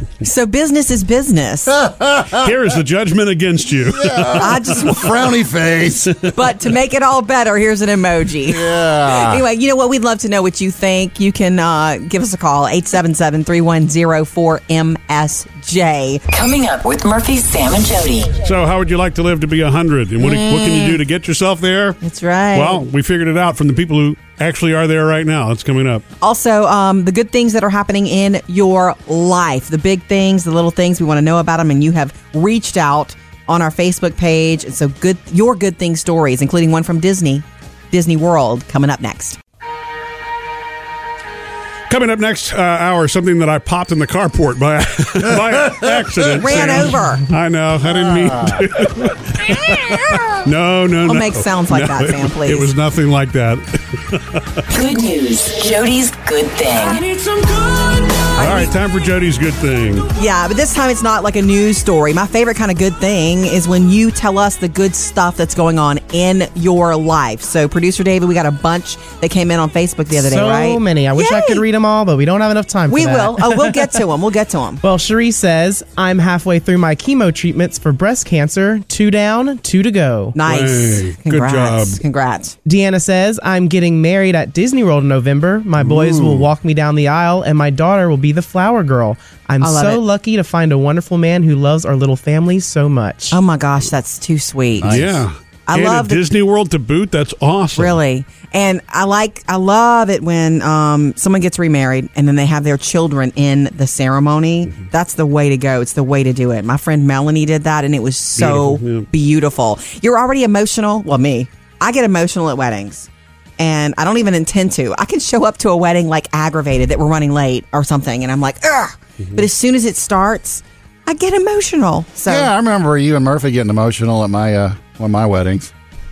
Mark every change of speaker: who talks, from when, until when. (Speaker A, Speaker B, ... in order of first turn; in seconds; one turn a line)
Speaker A: 0.2-1.8
Speaker B: 1.8-2.5
Speaker C: 2.3-4.5
Speaker B: 3.9-6.2
Speaker A: 4.2-5.3
Speaker A: 6.3-16.2
Speaker B: 8.4-9.4
Speaker D: 16.3-18.3
Speaker C: 18.4-22.0
Speaker A: 20.2-20.9
Speaker A: 22.0-22.8
Speaker C: 22.5-26.0
Speaker A: 26.2-39.4
Speaker C: 41.9-54.6
Speaker B: 45.6-45.9
Speaker A: 46.3-47.2
Speaker B: 47.9-48.7
Speaker A: 51.0-52.7
Speaker D: 54.7-57.0
Speaker C: 58.2-60.1
Speaker A: 58.4-58.7
Speaker A: 60.2-71.6
Speaker E: 70.1-74.0
Speaker A: 72.9-74.8
Speaker E: 74.8-80.4
Speaker A: 80.3-82.5
Speaker C: 80.5-82.0
Speaker E: 82.7-93.4
Speaker B: 85.8-86.5
Speaker A: 89.6-90.0
Speaker A: 93.3-95.0
Speaker B: 94.8-95.2
Speaker C: 94.8-98.0
Speaker A: 95.7-96.2
Speaker A: 97.8-113.1
Speaker C: 108.3-109.1
Speaker A: 113.6-122.5
Speaker B: 122.3-125.7